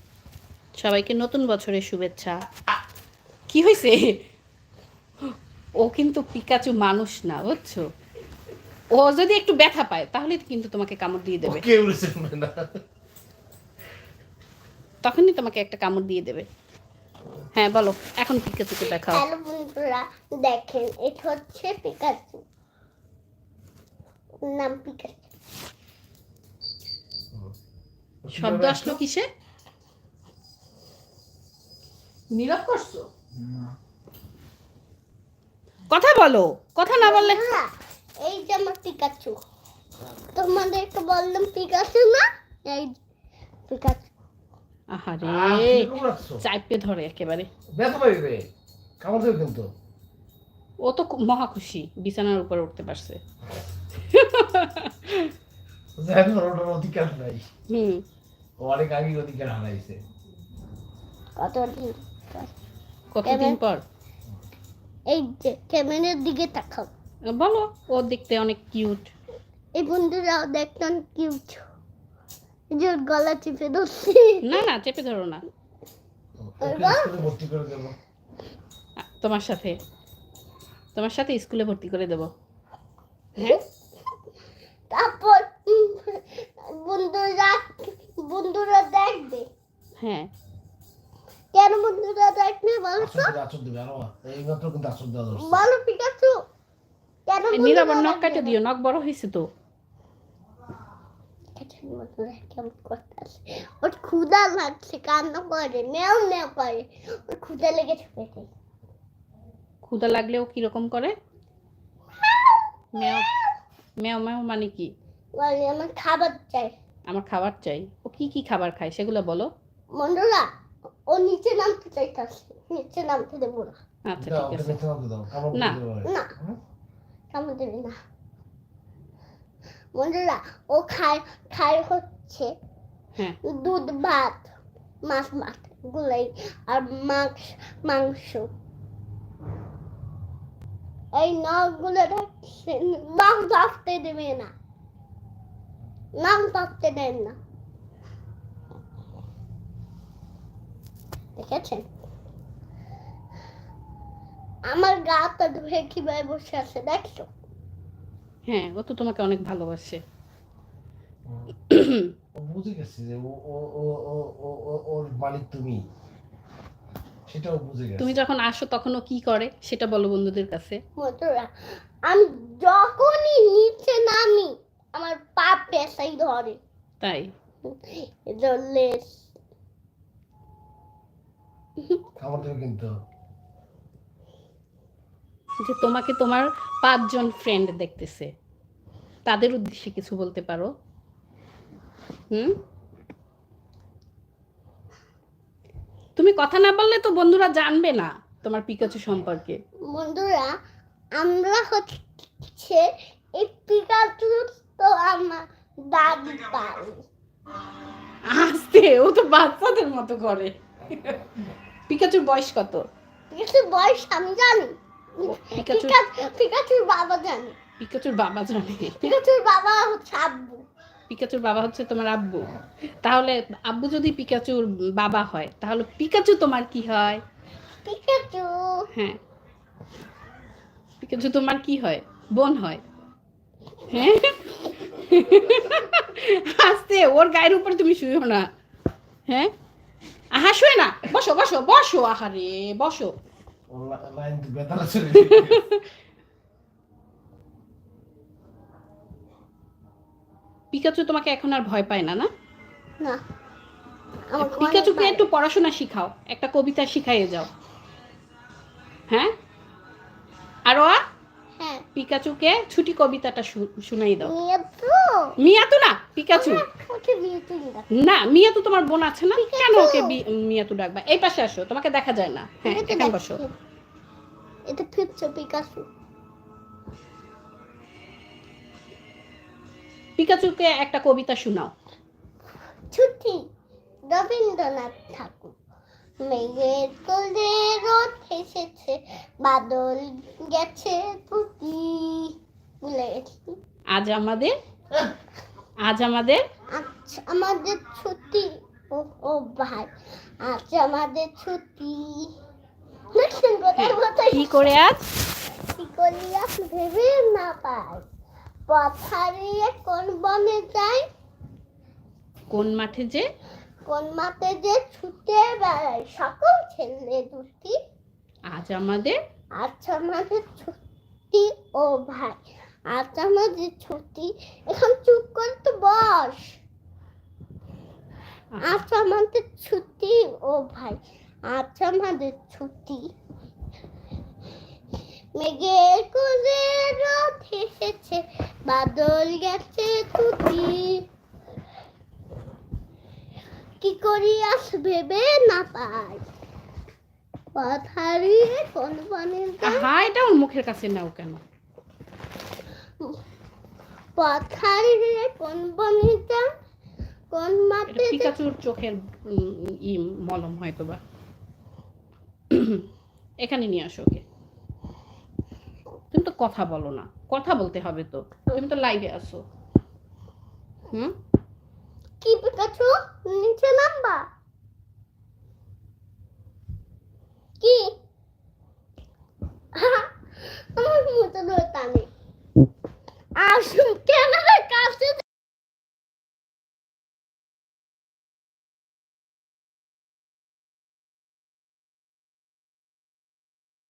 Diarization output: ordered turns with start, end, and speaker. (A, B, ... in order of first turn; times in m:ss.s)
0:00.8-0:02.4 A
0:03.5-0:04.2 A
0:05.8-0:07.8 A
0:08.9-0:11.6 A
0:11.4-0:12.8 B
0:15.0-0:16.4 A
0:17.6-0:19.2 A
0:18.8-0:22.4 C
0:24.4-0:25.2 C
0:28.2-0:29.0 B
0:28.4-0:29.3 A
0:32.3-0:33.1 A
0:35.9-0:37.4 A
0:37.0-0:39.4 C
0:40.4-0:42.9 C
0:43.7-0:44.1 C
0:44.9-0:47.5 A
0:45.2-0:46.4 B
0:47.7-0:48.5 B
0:49.0-0:49.7 B
0:50.8-0:53.2 A
0:54.1-0:55.3 A
0:56.0-0:57.4 B
0:57.7-0:58.0 A
0:58.6-1:00.0 B
1:01.4-1:02.5 C
1:03.1-1:03.8 A
1:03.2-1:03.6 C
1:05.1-1:06.9 C
1:07.3-1:09.1 A
1:09.8-1:11.6 C
1:12.7-1:14.6 C
1:14.4-1:15.4 A
1:16.4-1:17.9 B
1:16.6-1:17.2 C
1:19.2-1:19.8 A
1:20.9-1:22.3 A
1:24.9-1:29.5 C
1:30.0-1:30.3 A
1:31.5-1:33.3 C
1:33.0-1:35.6 B
1:35.4-1:36.4 C
1:37.3-1:38.6 C
1:37.5-1:39.5 A
1:41.6-1:48.5 C
1:49.9-1:51.1 A
1:52.2-1:53.5 C
1:53.0-1:53.3 A
1:54.0-1:54.9 A
1:55.4-1:56.7 C
1:57.1-1:59.5 A
2:00.0-2:00.5 C
2:01.1-2:03.8 C
2:04.1-2:04.8 A
2:04.2-2:06.6 B
2:05.5-2:05.8 A
2:06.0-2:06.3 C
2:07.3-2:08.0 C
2:10.0-2:12.5 C
2:13.4-2:14.5 C
2:15.1-2:18.5 C
2:21.1-2:24.5 C
2:26.2-2:27.4 C
2:31.4-2:31.9 C
2:34.7-2:37.3 C
2:38.5-2:40.0 A
2:41.3-2:41.6 B
2:41.7-2:42.1 A
2:42.4-2:45.8 B
2:47.3-2:48.1 B
2:48.0-2:50.8 A
2:51.0-2:51.5 C
2:52.1-2:56.6 C
2:57.0-2:57.3 A
2:57.6-2:59.1 C
3:02.2-3:02.9 B
3:05.6-3:08.3 A
3:09.3-3:10.7 A
3:16.2-3:19.6 A
3:19.9-3:20.5 C
3:21.2-3:27.0 C
3:28.3-3:31.2 A
3:31.9-3:32.8 A
3:33.3-3:37.6 C
3:35.2-3:36.0 A
3:37.8-3:39.1 A
3:38.9-3:40.6 C
3:41.1-3:47.2 A
3:47.8-3:48.9 C
3:51.0-3:52.8 A
3:53.9-3:58.5 A
4:00.3-4:03.1 A
4:03.7-4:05.6 B
4:05.2-4:05.8 A
4:10.7-4:12.3 A
4:14.3-4:15.2 C
4:14.4-4:17.5 A
4:20.7-4:21.0 A
4:21.6-4:21.8 C
4:22.0-4:24.3 A
4:24.2-4:25.4 C
4:25.4-4:26.6 A
4:26.3-4:27.9 C
4:28.0-4:33.4 A
4:29.3-4:30.2 C
4:32.6-4:33.5 C
4:34.7-4:35.9 C
4:40.2-4:41.7 A
4:42.9-4:43.4 C
4:44.1-4:45.5 C
4:46.2-4:53.5 C
4:53.9-4:54.5 A
4:55.8-4:56.4 A
4:56.7-4:59.9 C
5:00.4-5:02.3 C
5:03.1-5:04.7 C
5:03.8-5:05.0 A
5:05.7-5:08.1 C
5:08.7-5:11.1 C
5:12.5-5:13.3 A
5:13.8-5:17.8 C
5:18.5-5:19.1 A
5:19.6-5:20.8 C
5:21.3-5:26.6 C
5:28.5-5:28.8 A
5:28.6-5:33.1 C
5:35.4-5:41.0 C
5:43.8-5:46.2 C
5:47.5-5:49.9 C
5:49.6-5:51.4 A
5:54.2-5:56.5 C
5:57.3-5:58.3 C
5:57.9-6:01.0 A
6:02.5-6:02.8 A
6:03.4-6:04.2 A
6:06.1-6:09.4 A
6:12.2-6:14.3 C
6:17.6-6:17.9 C
6:19.8-6:22.1 C
6:23.4-6:25.2 C